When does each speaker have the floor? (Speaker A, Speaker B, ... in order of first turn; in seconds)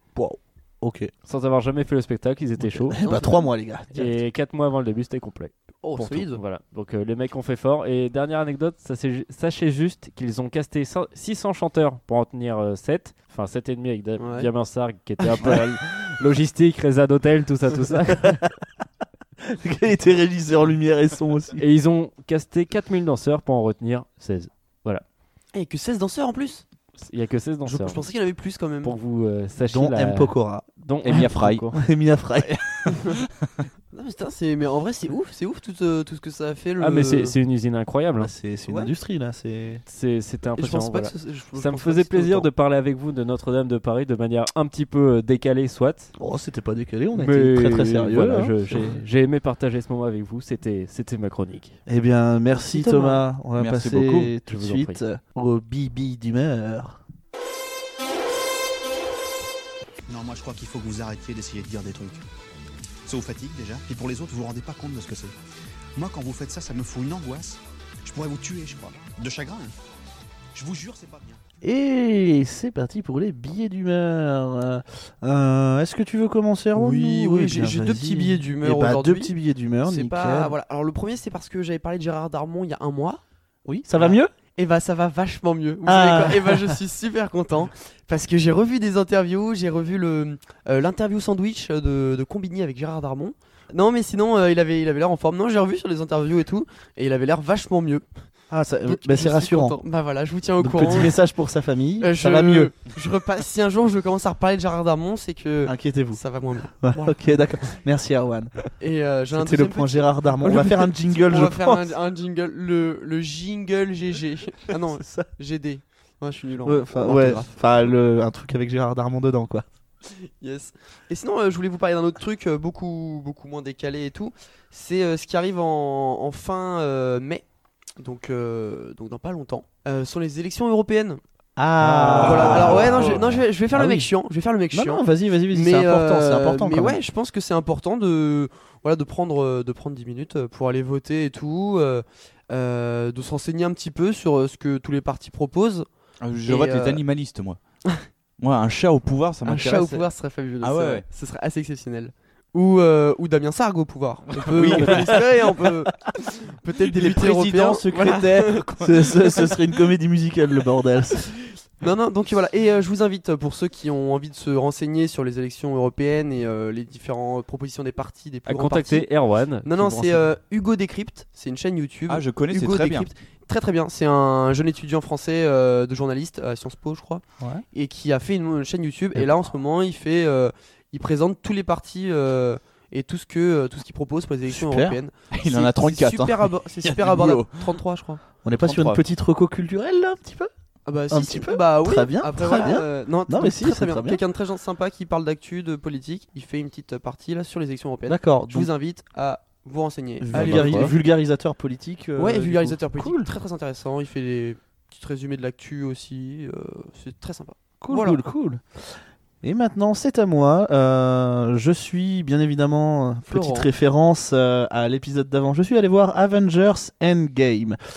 Speaker A: 0.1-1.1, 2.6-4.2, 19.4-21.6, 29.7-32.9, 38.2-39.8, 46.2-49.0, 51.9-57.0, 71.6-80.5, 83.7-84.3, 85.8-86.8, 98.5-99.8, 100.6-102.7, 105.7-106.2, 106.8-108.5, 109.3-111.9, 115.0-115.3, 116.6-119.7, 131.6-134.1, 134.7-137.0, 158.8-161.3, 184.5-185.0, 188.4-190.5, 191.1-194.2, 198.1-198.7, 200.2-203.3, 207.8-217.8
Speaker B: 1.3-3.0, 3.9-18.4, 21.6-25.0, 27.0-28.1, 28.8-31.8, 36.8-38.3, 39.9-46.1, 47.1-51.8, 54.5-55.0, 168.5-170.3
Speaker C: 3.0-3.5, 5.8-6.4, 14.2-14.5, 25.5-26.6, 27.6-29.0, 33.9-37.4, 40.5-42.5, 52.7-53.2, 76.8-83.2, 84.0-98.1, 98.9-101.2, 102.0-107.4, 108.8-117.6, 120.1-127.5, 128.0-131.2, 132.1-145.9, 146.5-147.0, 149.4-158.7, 161.8-169.1, 169.6-188.2, 190.9-201.0, 202.2-208.2, 213.3-213.7
Speaker D: 31.0-31.6, 53.6-54.3, 132.0-133.2, 146.2-147.6, 148.4-150.1, 150.6-151.1, 154.4-155.5, 156.9-159.2, 172.1-173.1, 185.3-187.7, 188.6-189.0, 200.3-200.9
Speaker E: 60.1-62.2, 63.0-65.3, 66.0-69.7, 70.5-71.4